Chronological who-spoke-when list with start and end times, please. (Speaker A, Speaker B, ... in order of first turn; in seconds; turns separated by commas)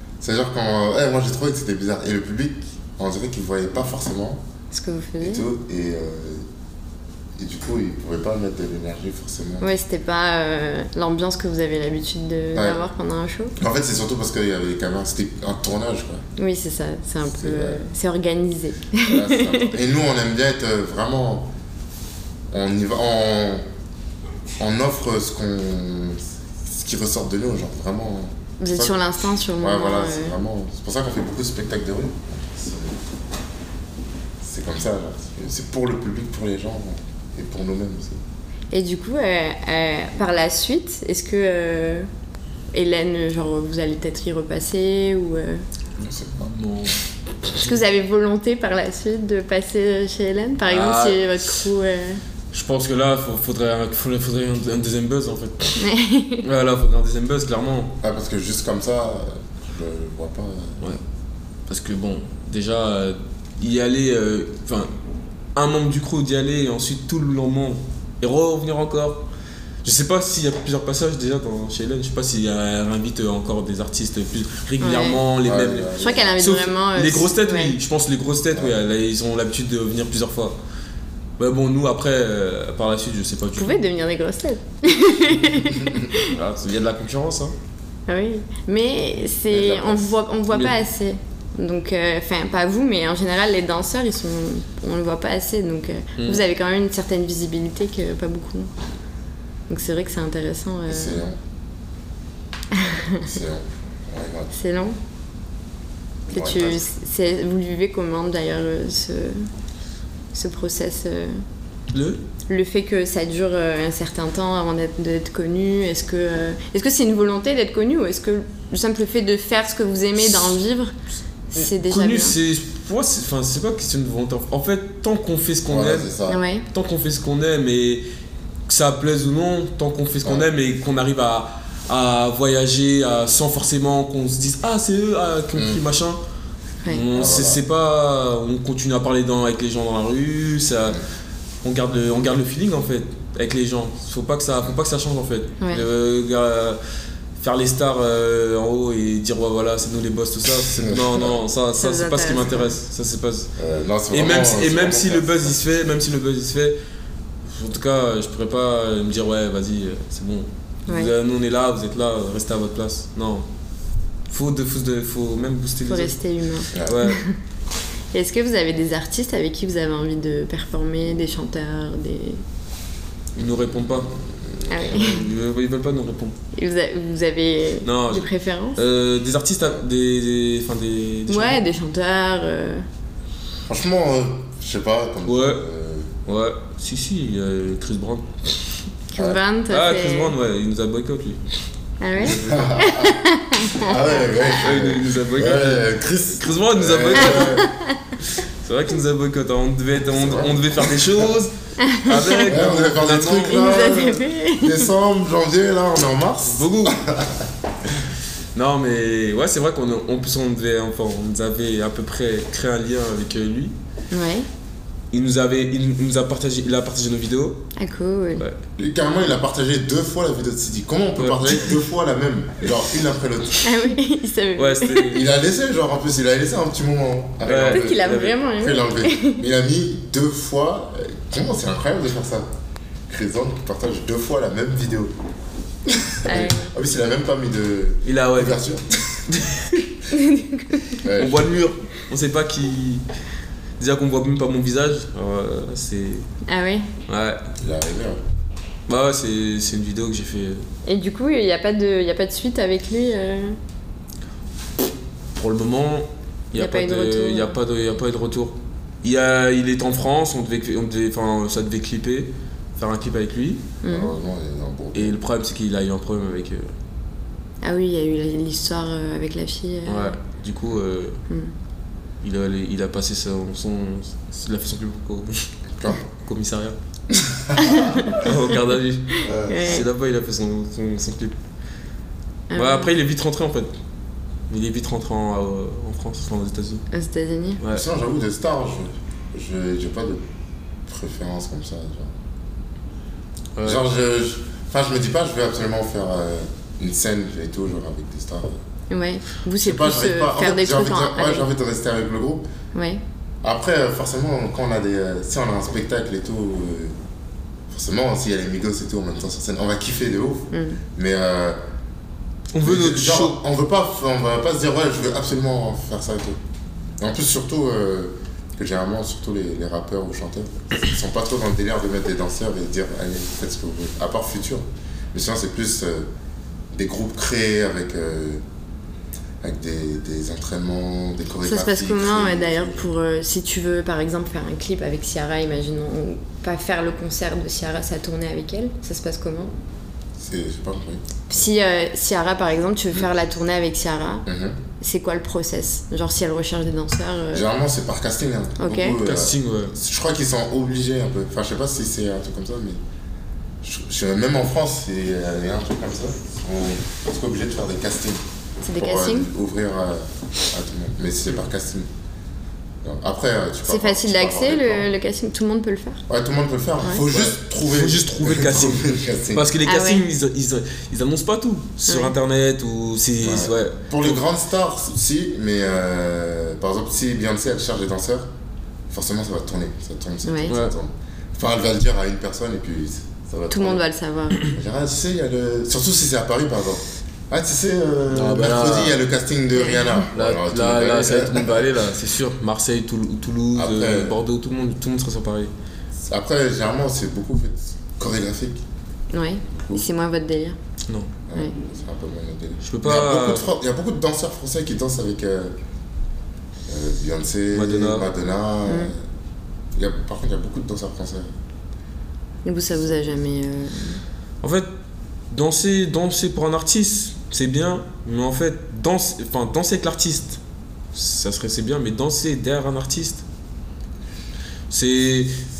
Speaker A: 0.2-4.4, Speaker B: 4.7-5.5, Speaker A: 5.2-6.5, Speaker A: 7.3-9.7, Speaker B: 9.6-13.5, Speaker A: 12.5-12.8, Speaker A: 13.6-16.2, Speaker B: 16.4-19.7, Speaker A: 17.3-17.8, Speaker A: 19.0-21.5, Speaker A: 22.5-23.6, Speaker A: 24.6-29.0, Speaker B: 28.6-30.4, Speaker A: 29.6-33.0, Speaker A: 34.4-38.2, Speaker B: 38.7-42.1, Speaker B: 42.7-45.6, Speaker C: 46.0-46.9, Speaker A: 46.0-46.5, Speaker B: 47.5-52.2, Speaker C: 50.7-51.4, Speaker C: 52.5-55.8, Speaker B: 55.8-56.4, Speaker C: 56.4-58.0, Speaker A: 58.0-60.8, Speaker C: 61.7-64.9, Speaker C: 65.5-69.2, Speaker C: 69.8-80.6, Speaker B: 74.8-75.2, Speaker A: 75.4-76.3, Speaker B: 76.0-77.8, Speaker C: 81.4-83.8, Speaker B: 83.5-86.3, Speaker C: 86.2-87.5, Speaker B: 88.1-98.7, Speaker C: 89.5-89.9, Speaker A: 89.6-89.9, Speaker C: 96.2-96.4, Speaker B: 99.7-101.2, Speaker A: 100.9-101.4, Speaker B: 102.7-103.3, Speaker A: 103.2-104.5, Speaker B: 104.5-105.0, Speaker A: 106.3-106.8, Speaker B: 106.3-109.5, Speaker B: 110.3-111.4, Speaker C: 111.9-112.2, Speaker B: 112.5-120.9, Speaker B: 121.5-122.3, Speaker C: 121.5-126.1, Speaker A: 125.7-126.4, Speaker B: 126.3-126.7, Speaker C: 126.7-128.0, Speaker C: 128.7-136.2, Speaker A: 135.5-135.8, Speaker C: 136.9-141.0, Speaker A: 137.1-137.6, Speaker C: 141.6-146.8, Speaker C: 147.4-153.5, Speaker A: 150.6-151.4, Speaker B: 151.8-152.7, Speaker A: 153.6-155.6, Speaker C: 154.1-156.8, Speaker C: 157.4-163.4, Speaker C: 164.3-166.2, Speaker B: 165.9-167.3, Speaker A: 166.7-167.1, Speaker C: 166.8-167.2, Speaker B: 168.1-172.4, Speaker C: 173.3-174.1, Speaker A: 173.8-175.1, Speaker B: 174.7-175.2, Speaker C: 174.9-176.3, Speaker B: 176.5-178.8, Speaker C: 177.8-181.6, Speaker B: 181.3-182.8, Speaker A: 183.7-186.1, Speaker C: 185.2-185.6, Speaker C: 186.2-188.3, Speaker B: 189.1-190.3, Speaker C: 189.7-191.4, Speaker B: 192.0-193.9, Speaker A: 192.2-197.7, Speaker C: 192.2-192.7, Speaker C: 194.6-197.7, Speaker B: 197.4-197.8, Speaker C: 198.6-201.5, Speaker A: 200.1-201.3, Speaker B: 201.8-202.5, Speaker C: 202.0-203.7, Speaker A: 202.5-207.4, Speaker B: 203.5-204.9, Speaker C: 206.4-207.0, Speaker C: 208.5-213.7, Speaker B: 214.1-214.5, Speaker C: 215.1-217.7, Speaker B: 217.8-218.4, Speaker A: 218.8-223.8, Speaker C: 221.2-221.8, Speaker B: 223.6-225.2, Speaker C: 224.6-225.2, Speaker A: 225.1-232.5, Speaker C: 227.4-228.3, Speaker B: 227.6-229.4, Speaker A: 233.1-235.1, Speaker A: 235.9-239.2, Speaker B: 236.2-236.7, Speaker C: 238.0-238.6, Speaker C: 239.3-239.8, Speaker B: 240.1-240.9, Speaker A: 241.0-241.5, Speaker C: 241.2-243.0, Speaker C: 243.8-246.3, Speaker B: 246.5-246.9, Speaker C: 247.1-247.4, Speaker A: 247.6-248.2, Speaker C: 248.9-250.7, Speaker B: 250.8-253.6, Speaker C: 255.3-263.6, Speaker B: 256.6-257.6, Speaker B: 263.8-264.1, Speaker A: 263.9-265.1, Speaker C: 264.9-266.7, Speaker B: 267.6-270.2, Speaker C: 269.9-271.2, Speaker C: 272.2-275.5, Speaker C: 276.1-276.8, Speaker A: 277.2-278.1, Speaker B: 277.6-278.3, Speaker C: 278.1-279.1, Speaker B: 279.1-279.8, Speaker A: 279.2-279.6, Speaker C: 279.6-281.4, Speaker B: 282.5-282.9, Speaker C: 282.5-283.7, Speaker C: 284.5-286.8, Speaker B: 286.9-287.6, Speaker C: 287.6-287.9, Speaker A: 287.7-290.2, Speaker A: 290.9-292.1, Speaker C: 293.6-293.8, Speaker A: 293.6-298.6, Speaker B: 298.9-301.5, Speaker A: 299.6-302.5, Speaker B: 302.7-303.0, Speaker A: 303.4-307.0, Speaker A: 307.7-311.6, Speaker B: 310.5-310.8, Speaker C: 312.5-313.4, Speaker A: 312.6-316.4, Speaker A: 317.0-326.1, Speaker A: 326.7-328.4, Speaker A: 329.4-332.9, Speaker B: 331.4-339.5, Speaker A: 340.2-341.2, Speaker B: 341.3-344.2, Speaker A: 344.2-344.6, Speaker B: 344.8-347.5, Speaker A: 347.3-352.8, Speaker B: 348.6-349.0, Speaker C: 349.0-349.7, Speaker A: 353.6-358.2, Speaker B: 358.6-359.3, Speaker A: 358.8-361.9, Speaker A: 362.8-364.9, Speaker B: 363.6-366.0, Speaker A: 366.1-369.6, Speaker C: 367.1-374.2, Speaker B: 369.6-370.0, Speaker B: 371.9-372.1, Speaker A: 373.2-378.3, Speaker A: 378.9-383.8, Speaker B: 380.2-380.5, Speaker C: 380.5-380.7, Speaker B: 383.5-384.5, Speaker A: 384.4-391.7, Speaker C: 388.1-389.0, Speaker B: 389.5-390.1, Speaker C: 390.1-395.5, Speaker A: 393.5-394.1, Speaker A: 396.0-398.6, Speaker B: 399.1-400.6, Speaker A: 399.5-399.8, Speaker A: 401.3-405.6, Speaker C: 402.6-403.5, Speaker A: 406.7-409.0, Speaker C: 407.5-408.1, Speaker B: 408.7-408.9, Speaker A: 409.7-411.3, Speaker B: 412.4-414.0, Speaker C: 414.4-414.7, Speaker C: 415.3-420.4, Speaker C: 420.9-423.2, Speaker C: 424.7-425.3